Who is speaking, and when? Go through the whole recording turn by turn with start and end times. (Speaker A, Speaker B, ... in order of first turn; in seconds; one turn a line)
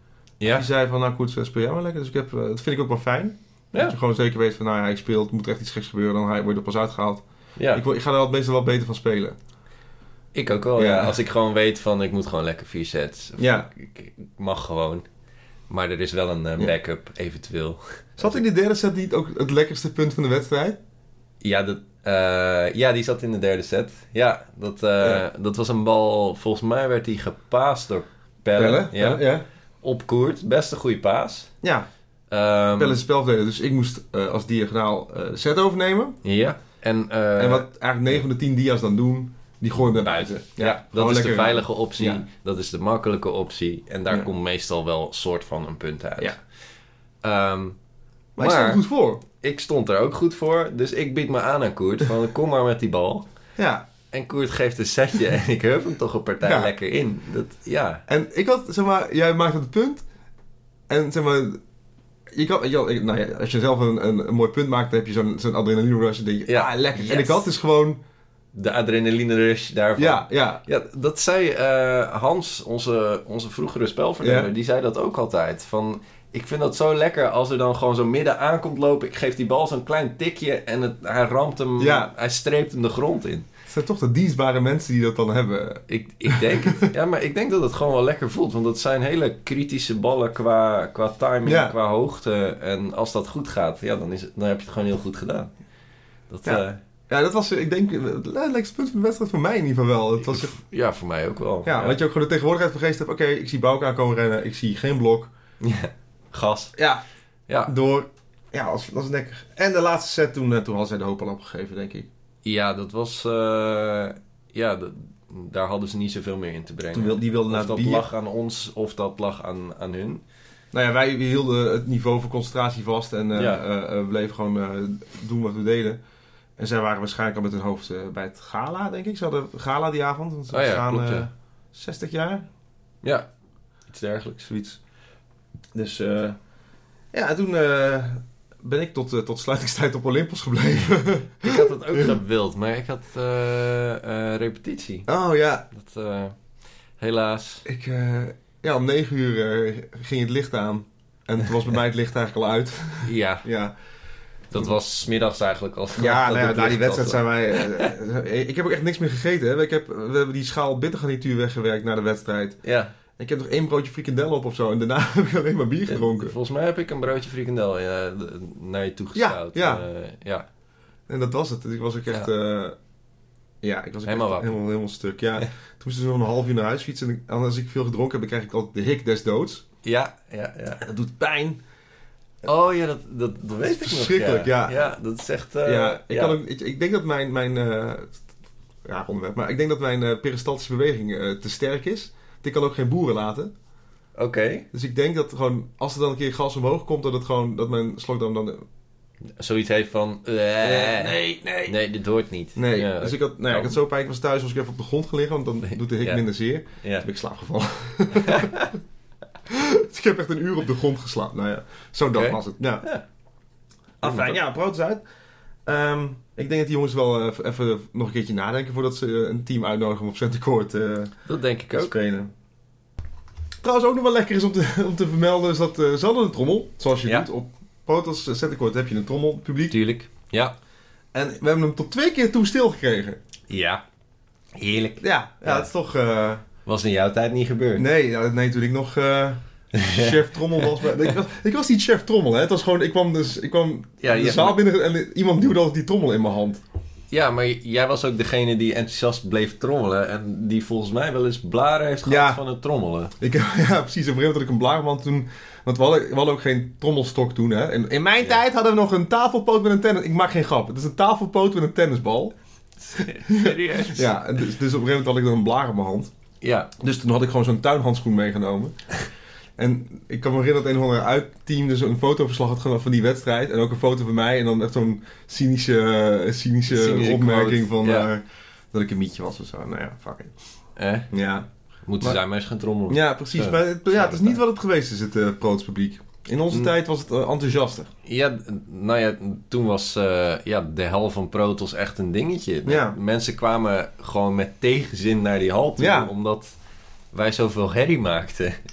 Speaker A: 0.4-0.7
Speaker B: 0.5-9.4
Speaker A: 7.6-7.8
Speaker A: 10.3-15.1
Speaker B: 10.8-11.2
Speaker B: 13.4-13.7
Speaker A: 15.7-18.4
Speaker B: 18.2-20.8
Speaker A: 21.4-29.2
Speaker B: 28.6-29.4
Speaker A: 29.8-31.5
Speaker B: 31.6-31.9
Speaker A: 32.3-33.0
Speaker B: 32.8-36.2
Speaker A: 36.2-37.7
Speaker B: 37.4-42.2
Speaker A: 39.8-46.4
Speaker A: 47.2-47.8
Speaker B: 48.4-49.2
Speaker A: 48.4-48.8
Speaker A: 49.3-53.2
Speaker B: 53.6-53.9
Speaker A: 54.1-58.0
Speaker B: 56.4-56.7
Speaker B: 58.1-60.0
Speaker B: 60.9-61.6
Speaker B: 62.3-68.0
Speaker A: 66.5-67.4
Speaker A: 68.5-83.5
Speaker B: 70.0-70.6
Speaker B: 74.2-74.5
Speaker B: 81.8-82.1
Speaker B: 83.7-86.9
Speaker A: 85.9-95.5
Speaker B: 91.4-91.7
Speaker A: 96.3-96.8
Speaker B: 96.4-100.5
Speaker A: 100.2-102.0
Speaker B: 101.7-105.3
Speaker A: 105.6-106.7
Speaker B: 106.8-107.0
Speaker B: 107.7-112.1
Speaker A: 112.4-120.2
Speaker B: 116.9-118.0
Speaker B: 120.7-126.0
Speaker A: 123.3-123.6
Speaker B: 126.6-132.4
Speaker A: 130.5-131.3
Speaker A: 133.9-134.5
Speaker B: 134.4-134.8
Speaker B: 135.7-136.4
Speaker B: 137.1-142.1
Speaker A: 141.4-145.1
Speaker B: 145.1-145.7
Speaker A: 145.7-146.3
Speaker A: 147.0-147.7
Speaker B: 147.6-153.7
Speaker A: 153.0-153.4
Speaker A: 154.5-157.9
Speaker B: 156.0-162.6
Speaker A: 162.6-162.9
Speaker B: 163.2-166.3
Speaker A: 165.9-170.4
Speaker B: 169.1-169.8
Speaker B: 171.1-172.8
Speaker B: 173.6-179.6
Speaker A: 174.1-174.5
Speaker A: 179.8-180.8
Speaker B: 180.8-181.6
Speaker A: 182.4-186.4
Speaker B: 183.6-184.9
Speaker B: 185.6-188.2
Speaker B: 188.8-193.5
Speaker A: 194.2-194.7
Speaker B: 194.7-198.6
Speaker A: 199.4-203.8
Speaker B: 200.6-201.8
Speaker B: 202.6-208.5
Speaker A: 205.7-206.2
Speaker A: 206.8-207.1
Speaker A: 208.2-208.7
Speaker B: 209.4-212.8
Speaker A: 212.1-213.0
Speaker B: 214.0-215.0
Speaker A: 214.0-214.4
Speaker B: 215.7-221.1
Speaker A: 221.3-221.9
Speaker B: 221.7-222.3
Speaker B: 223.6-229.8
Speaker A: 229.7-230.5
Speaker B: 231.1-233.2
Speaker A: 233.5-233.8
Speaker A: 234.6-235.7
Speaker B: 235.0-236.4
Speaker A: 236.7-237.8
Speaker B: 237.8-246.6
Speaker A: 239.7-241.1
Speaker A: 244.0-244.6
Speaker A: 247.1-253.1
Speaker B: 252.1-252.4
Speaker B: 253.2-262.3
Speaker A: 262.8-264.1
Speaker B: 263.2-266.1
Speaker A: 266.4-266.7
Speaker B: 266.8-268.7
Speaker B: 269.6-280.3
Speaker A: 276.7-278.1
Speaker A: 280.8-281.1
Speaker B: 281.1-281.5
Speaker A: 281.9-284.4
Speaker B: 282.9-287.9
Speaker A: 288.0-296.5
Speaker B: 292.6-292.9
Speaker B: 295.8-296.1
Speaker A: 297.1-298.6